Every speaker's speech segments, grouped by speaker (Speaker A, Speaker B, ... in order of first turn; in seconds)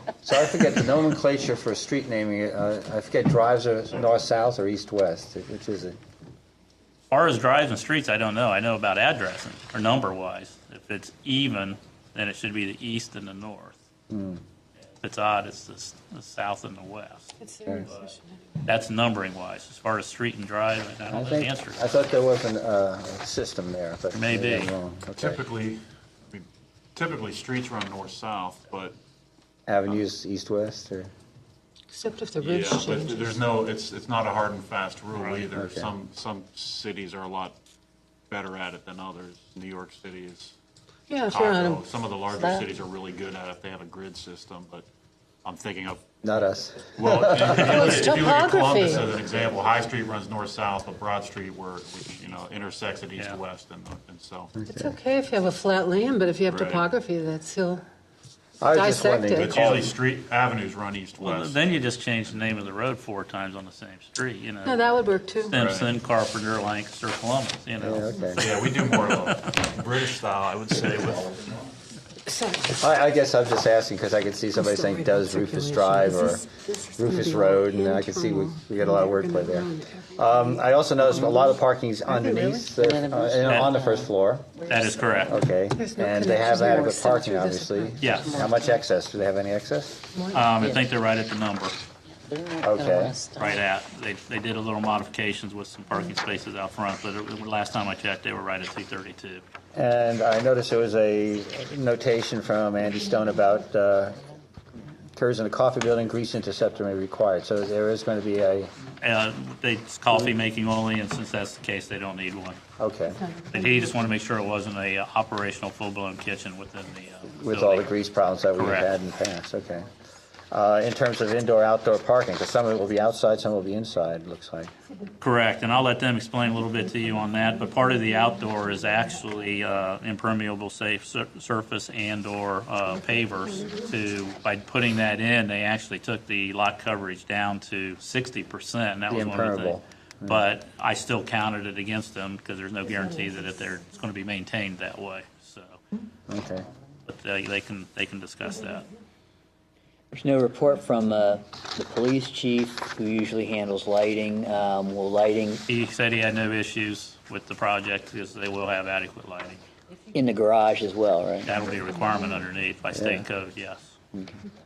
Speaker A: 0.2-6.0, 14.1-14.4, 21.1-25.4, 29.7-31.1, 35.5-35.9, 46.2-48.0, 54.6-54.9, 58.6-59.9, 67.8-68.5, 72.8-76.5, 77.0-84.5, 85.3-90.0, 92.6-93.2, 99.7-104.2, 105.1-108.7, 112.8-113.2, 117.4-119.9, 120.5-124.7, 139.1-140.4, 146.3-146.7, 162.9-163.2
Speaker B: 7.1-13.8, 15.0-17.3, 18.6-22.0, 24.1-24.7, 35.1-35.5, 61.2-69.5, 83.4-83.8, 84.7-85.4, 88.0-88.4, 90.3-91.8, 93.4-99.4, 109.0-112.6, 113.5-117.9, 118.5-118.9, 125.2-145.8, 147.1-148.9, 155.7-159.6, 161.4-164.0
Speaker C: 17.4-18.6, 31.9-33.3, 41.1-41.8, 47.6-49.0, 54.7-57.8, 58.6-59.5, 64.7-65.6, 72.2-72.8, 74.5-81.5, 82.1-82.7, 85.8-88.0, 90.1-90.5, 113.2-113.9
Speaker D: 25.2-29.0, 32.4-37.6, 38.3-40.5, 41.2-44.9, 45.4-46.2, 46.9-54.5, 56.5-56.9, 59.3-61.6, 65.5-65.9, 68.3-71.7
Speaker E: 42.3-42.7, 82.8-85.5, 88.0-88.8, 92.2-93.6
Speaker F: 150.1-155.6, 160.1-161.5